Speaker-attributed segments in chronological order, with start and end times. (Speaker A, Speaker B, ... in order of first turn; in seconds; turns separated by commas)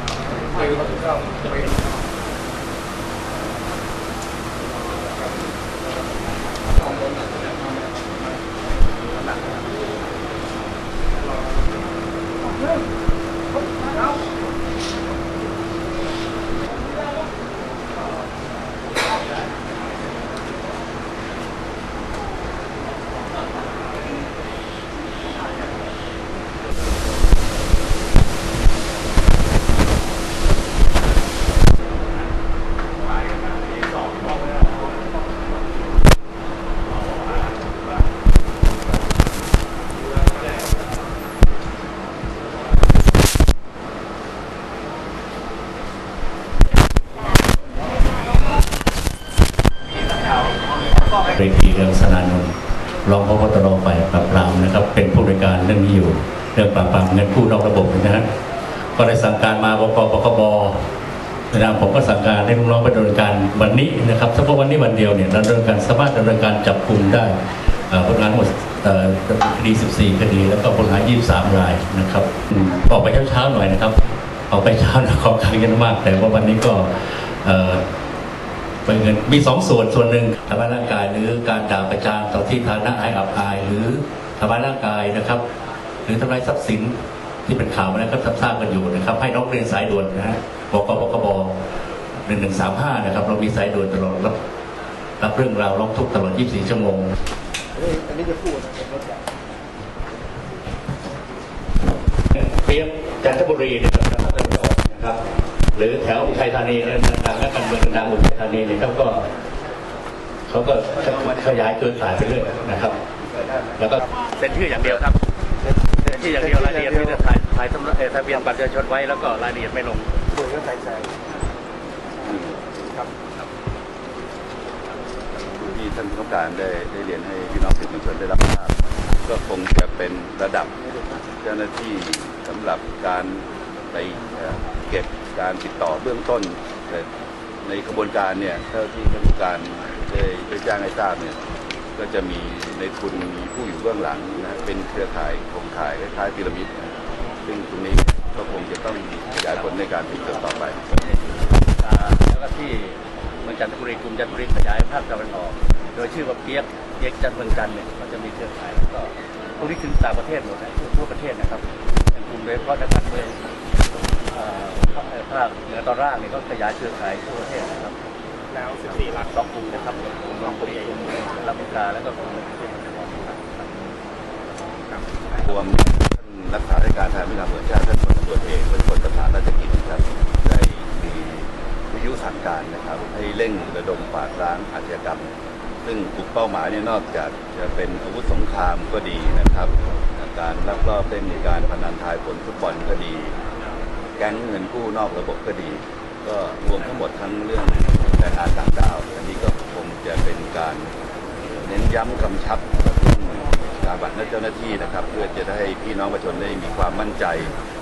Speaker A: 51.3-52.5, Speaker A: 53.0-58.2, Speaker A: 59.0-60.8, Speaker A: 61.5-67.3, Speaker A: 67.9-74.0, Speaker A: 74.5-77.8, Speaker A: 78.8-85.4, Speaker A: 86.0-91.5, Speaker A: 92.2-94.4, Speaker A: 95.2-97.1, Speaker B: 97.8-99.2, Speaker A: 102.3-105.2, Speaker A: 105.7-109.2, Speaker A: 110.5-113.0, Speaker C: 111.0-113.8, Speaker A: 113.8-115.2, Speaker A: 116.0-120.1, Speaker B: 116.6-116.9, Speaker B: 120.3-121.2, Speaker B: 122.2-123.1, Speaker C: 122.2-122.6, Speaker C: 125.5-130.8, Speaker C: 131.4-137.1, Speaker C: 137.6-141.4, Speaker C: 142.0-150.9, Speaker A: 149.2-163.4, Speaker A: 164.3-167.9, Speaker B: 168.6-169.0, Speaker A: 168.9-173.9, Speaker C: 175.4-185.3, Speaker C: 185.8-193.4, Speaker C: 194.2-200.9, Speaker C: 201.4-207.5